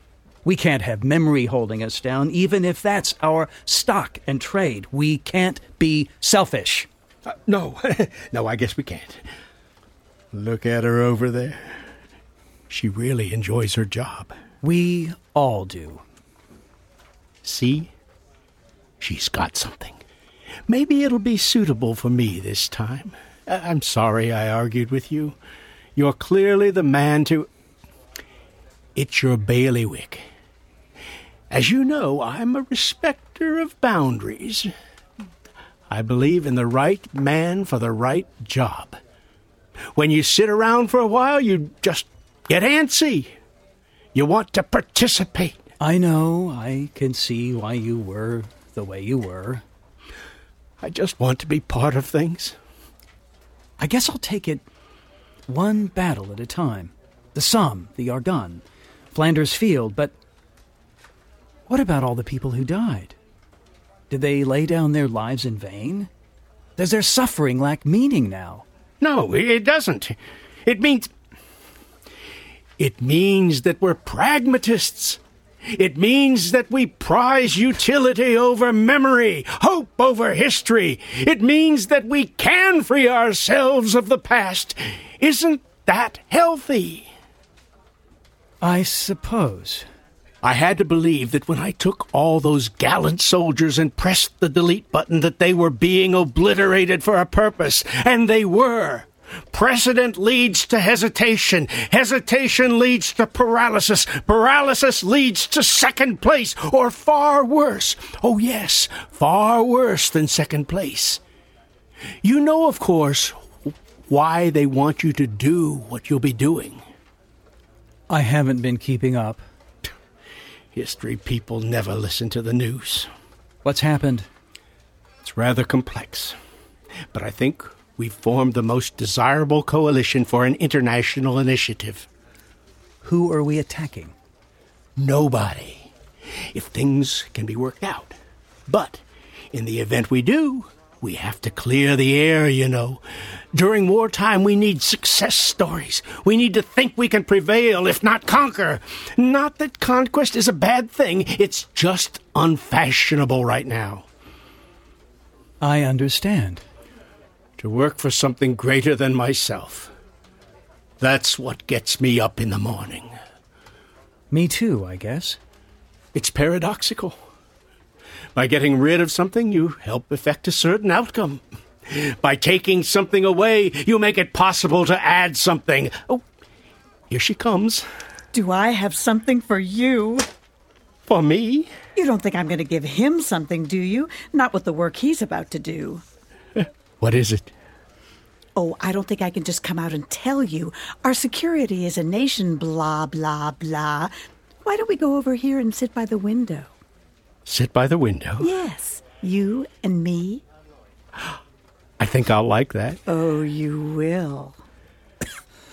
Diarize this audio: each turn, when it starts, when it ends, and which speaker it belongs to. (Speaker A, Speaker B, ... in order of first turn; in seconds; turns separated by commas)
Speaker A: 0.5-6.9, Speaker B: 7.3-9.2, Speaker B: 10.3-11.8, Speaker B: 12.7-14.3, Speaker A: 14.6-16.0, Speaker B: 17.4-17.9, Speaker B: 19.0-20.0, Speaker B: 20.7-25.4, Speaker B: 26.0-27.5, Speaker B: 28.9-30.2, Speaker B: 31.5-34.7, Speaker B: 35.9-39.0, Speaker B: 40.0-43.3, Speaker B: 44.1-45.6, Speaker A: 45.8-49.6, Speaker B: 50.8-52.6, Speaker A: 53.8-54.6, Speaker A: 55.5-60.1, Speaker A: 61.7-63.1, Speaker A: 64.1-66.1, Speaker A: 66.8-68.7, Speaker B: 69.0-71.1, Speaker B: 72.8-75.2, Speaker B: 75.7-87.1, Speaker A: 88.6-89.9, Speaker B: 90.4-111.2, Speaker B: 112.2-116.8, Speaker A: 118.1-119.4, Speaker B: 120.7-123.1, Speaker A: 123.6-124.3, Speaker B: 125.2-126.3, Speaker B: 127.1-132.1, Speaker A: 133.0-134.1, Speaker B: 135.0-135.9, Speaker B: 136.5-138.2, Speaker B: 138.7-139.0, Speaker B: 139.5-143.0, Speaker B: 143.5-154.1, Speaker A: 155.6-156.6, Speaker B: 157.6-159.9, Speaker B: 161.0-163.1, Speaker A: 164.3-165.4, Speaker B: 166.1-167.2, Speaker B: 168.3-176.2, Speaker B: 177.1-177.8, Speaker C: 178.3-180.3, Speaker B: 181.1-181.7, Speaker C: 182.0-186.0, Speaker B: 187.0-187.5, Speaker C: 188.6-194.1, Speaker C: 194.6-196.7, Speaker B: 197.5-198.5, Speaker C: 198.4-200.4, Speaker B: 202.0-203.0, Speaker C: 203.1-204.6